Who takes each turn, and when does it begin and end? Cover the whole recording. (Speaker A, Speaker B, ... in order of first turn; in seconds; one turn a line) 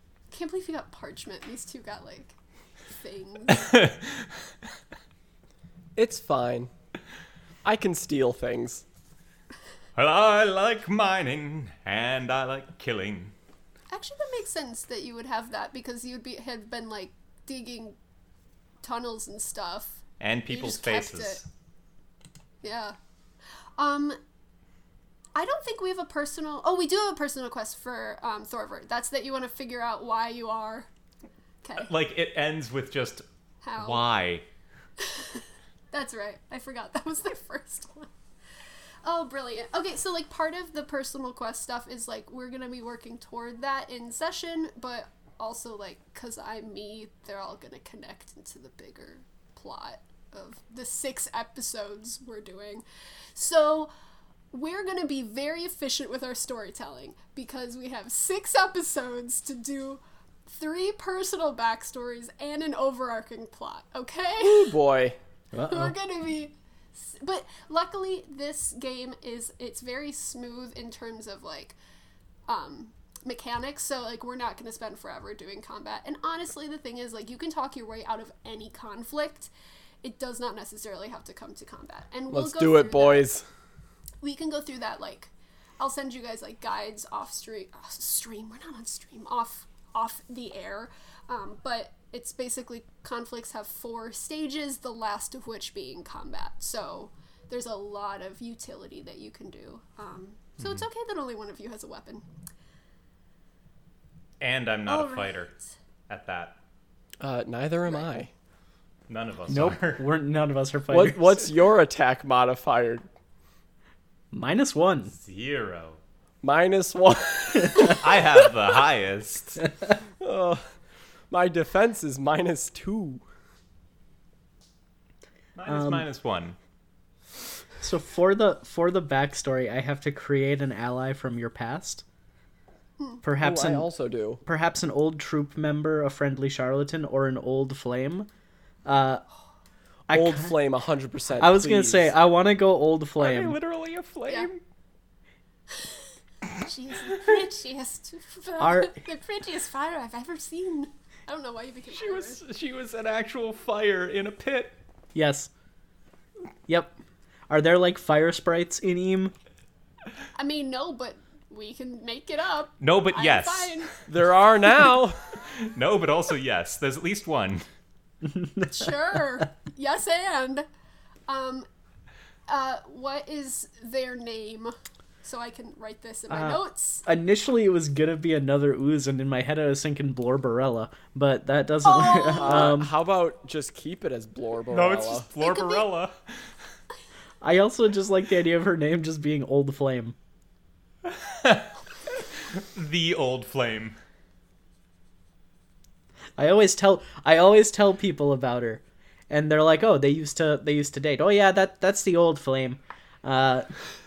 Speaker A: 0.3-2.3
Speaker A: 2.9-3.7
Speaker B: 3.5-4.3
Speaker C: 6.0-6.7
Speaker C: 7.6-8.8
Speaker B: 9.9-13.3
Speaker A: 13.9-18.0
Speaker A: 18.8-21.4
Speaker B: 20.2-21.4
Speaker A: 22.6-23.0
Speaker A: 23.8-24.2
Speaker A: 25.3-30.9
Speaker A: 31.6-31.9
Speaker B: 31.8-33.2
Speaker A: 33.6-34.0
Speaker B: 33.8-34.4
Speaker A: 35.0-38.1
Speaker A: 39.0-53.9
Speaker A: 54.5-64.7
Speaker C: 64.4-65.2
Speaker D: 65.5-65.9
Speaker A: 65.6-71.8
Speaker A: 72.5-79.5
Speaker A: 80.0-83.3
Speaker C: 82.3-83.4
Speaker A: 84.2-102.2
Speaker B: 100.6-100.8
Speaker B: 104.4-105.5
Speaker A: 104.8-105.7
Speaker B: 106.1-106.6
Speaker C: 107.2-108.3
Speaker B: 109.1-110.0
Speaker D: 109.5-111.5
Speaker C: 110.9-113.0
Speaker D: 114.3-115.1
Speaker B: 115.2-116.0
Speaker C: 116.4-118.2
Speaker B: 117.9-119.6
Speaker C: 120.2-120.6
Speaker C: 121.3-123.2
Speaker B: 125.5-126.5
Speaker D: 125.7-126.1
Speaker D: 127.8-132.0
Speaker D: 133.2-133.9
Speaker C: 133.4-134.4
Speaker D: 134.4-138.3
Speaker D: 138.8-139.2
Speaker D: 140.1-140.5
Speaker C: 140.1-142.1
Speaker D: 141.4-143.6
Speaker B: 143.2-144.6
Speaker A: 146.6-152.4
Speaker D: 148.6-148.9
Speaker B: 151.9-154.8
Speaker D: 155.1-155.5
Speaker D: 156.7-156.9
Speaker D: 157.5-159.3
Speaker A: 160.3-163.9
Speaker B: 162.8-163.8
Speaker C: 164.1-165.2
Speaker B: 165.6-167.6
Speaker D: 168.2-169.4
Speaker A: 168.7-170.7
Speaker A: 171.3-171.7
Speaker A: 172.5-177.0
Speaker D: 176.3-182.9
Speaker A: 181.8-182.7
Speaker C: 182.4-185.3
Speaker B: 184.7-186.1
Speaker A: 185.4-185.9
Speaker D: 187.4-190.2
Speaker B: 191.0-191.8
Speaker B: 192.5-194.0
Speaker D: 196.4-203.7